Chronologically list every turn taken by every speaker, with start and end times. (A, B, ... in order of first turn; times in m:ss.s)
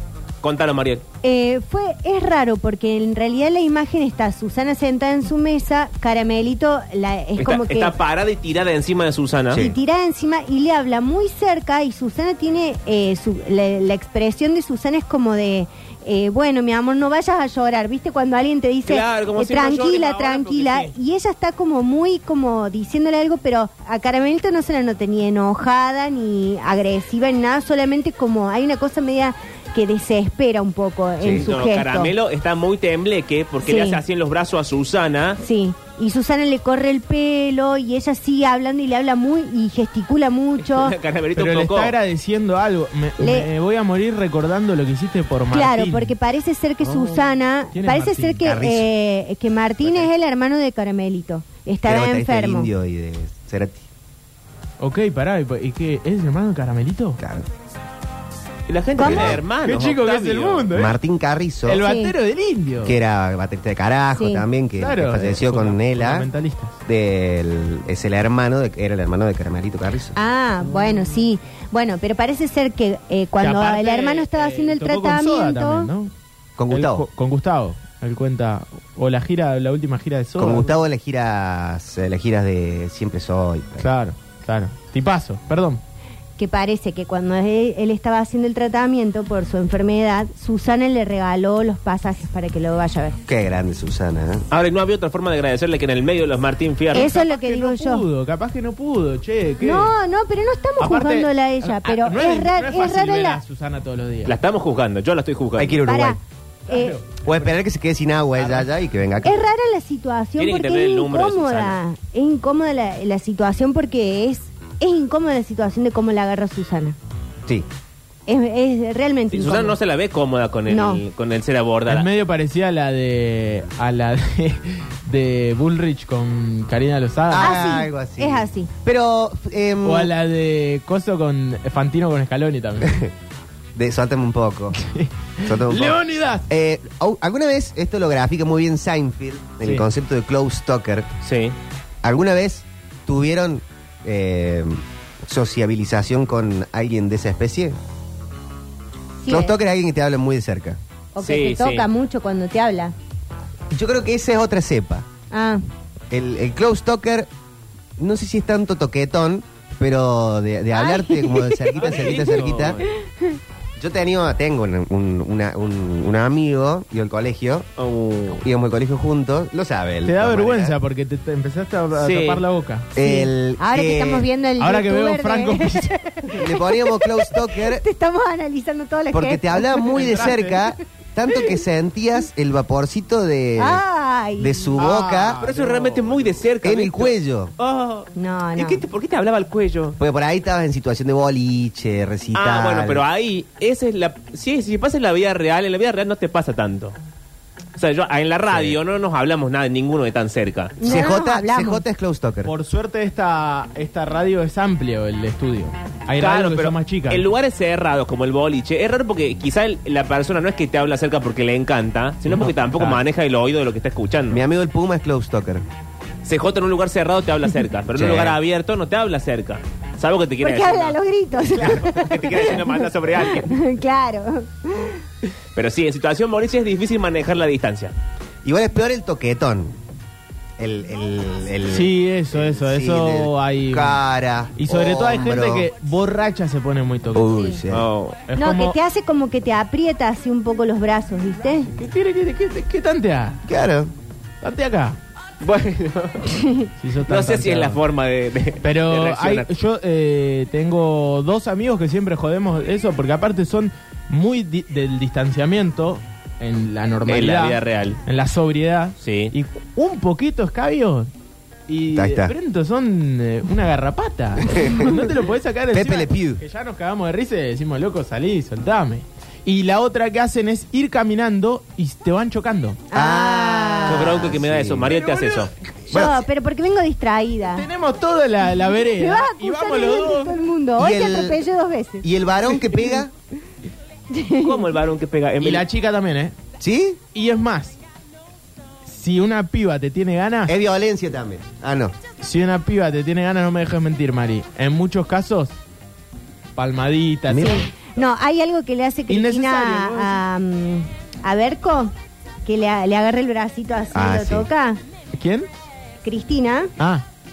0:00.4-0:01.0 A
0:01.2-0:07.9 B
0:07.4-0:09.6 A
0:09.5-0:09.7 C
0:09.5-0:32.1 B
0:18.9-0:20.9 A
0:31.2-0:31.5 C
0:31.4-0:35.4 A
0:33.6-0:34.0 B
0:35.4-0:41.0 B
0:40.6-0:41.9 A
0:41.4-0:46.1 D
0:43.2-0:43.5 B
0:45.5-0:52.7 B
0:46.8-0:47.1 D
0:47.7-0:48.4 D
0:48.4-0:48.9 C
0:51.8-0:53.8 C
0:54.8-0:57.2 D
0:57.2-0:57.4 C
0:58.7-1:00.7 A
0:59.0-0:59.4 C
0:59.0-0:59.4 B
0:59.1-1:00.9 D
1:00.7-1:01.8 C
1:01.6-1:03.0 D
1:01.8-1:02.1 B
1:02.8-1:06.3 C
1:04.1-1:04.4 B
1:04.8-1:06.8 D
1:06.8-1:10.2 C
1:10.2-1:15.9 B
1:13.4-1:16.1 D
1:16.6-1:17.0 C
1:16.7-1:20.7 D
1:20.4-1:23.9 C
1:23.8-1:25.8 D
1:26.4-1:33.2 B
1:33.3-1:34.4 C
1:34.5-1:37.1 A
1:36.9-1:38.0 B
1:36.9-1:39.9 D
1:39.6-1:43.4 B
1:40.8-1:44.4 D
1:44.2-1:45.8 A
1:45.6-1:46.2 C
1:45.8-1:47.0 B
1:46.7-1:47.6 D
1:47.2-1:49.4 C
1:48.3-1:48.7 D
1:49.2-1:57.0 B
1:50.4-1:51.8 A
1:58.3-1:59.8 B
1:59.3-2:02.1 A
2:00.7-2:01.0 B
2:01.9-2:07.6 D
2:07.3-2:10.1 C
2:07.4-2:08.7 B
2:09.8-2:13.0 D
2:12.8-2:13.1 C
2:13.8-2:14.8 C
2:14.8-2:16.4 D
2:15.4-2:21.1 C
2:21.2-2:21.5 A
2:22.0-2:27.8 C
2:29.2-2:29.6 B
2:29.3-2:30.8 C
2:31.1-2:32.9 B
2:31.2-2:31.9 A
2:33.7-2:35.1 C
2:35.3-2:35.6 B
2:36.1-2:37.3 C
2:38.0-2:42.8 C
2:40.7-2:41.7 B
2:41.8-2:42.9 A
2:43.8-2:47.7 C
2:47.8-2:48.4 A
2:48.3-2:50.8 C
2:50.0-2:52.9 D
2:51.9-2:52.4 A
2:52.9-2:54.3 C
2:53.0-3:00.0 B
2:54.6-2:55.9 D
2:56.3-2:57.8 C
2:59.1-3:03.8 C
2:59.9-3:00.6 D
3:03.6-3:04.8 B
3:04.4-3:05.4 C
3:04.7-3:06.4 D
3:05.4-3:10.0 A
3:06.6-3:07.5 C
3:08.1-3:08.8 B
3:10.0-3:13.0 C
3:12.3-3:16.9 A
3:17.8-3:20.8 A
3:18.5-3:18.8 C
3:20.8-3:21.8 B
3:20.8-3:22.5 C
3:22.4-3:27.2 D
3:26.2-3:34.4 A
3:32.3-3:33.0 D
3:34.3-3:35.6 C
3:36.2-3:41.0 A
3:37.9-3:38.4 C
3:40.4-3:45.0 B
3:41.5-3:43.5 A
3:45.5-3:47.9 A
3:48.4-3:49.8 C
3:50.6-3:55.7 C
3:51.7-3:54.0 D
3:54.6-3:57.4 D
3:57.1-3:57.9 C
3:57.7-3:58.2 A
3:58.3-3:58.8 D
3:58.4-4:01.7 B
4:01.7-4:03.4 D
4:03.5-4:03.9 C
4:04.4-4:05.0 D
4:05.4-4:06.3 A
4:06.3-4:06.7 B
4:06.8-4:07.8 D
4:07.1-4:09.5 A
4:08.6-4:21.1 D
4:17.0-4:18.0 A
4:19.0-4:19.3 A
4:21.7-4:32.8 D
4:21.9-4:22.3 C
4:24.5-4:24.9 C
4:25.7-4:26.4 C
4:32.9-4:34.2 B
4:32.9-4:34.9 C
4:33.9-4:35.5 A
4:34.9-4:35.5 D
4:35.9-4:37.7 B
4:35.9-4:36.2 C
4:37.5-4:40.4 D
4:38.6-4:42.0 B
4:40.8-4:41.4 C
4:42.0-4:43.1 C
4:44.1-4:44.6 B
4:44.4-4:45.6 A
4:45.4-4:46.3 D
4:46.6-4:47.0 C
4:47.1-4:47.8 D
4:48.8-4:50.5 D
4:50.5-4:51.9 C
4:52.2-4:55.6 D
4:56.6-4:57.7 D
4:57.3-4:57.6 C
4:57.4-5:01.9 B
4:59.1-5:00.2 D
5:02.4-5:04.8 B
5:03.9-5:04.5 C
5:05.1-5:05.5 D
5:06.0-5:06.7 B
5:06.8-5:07.0 D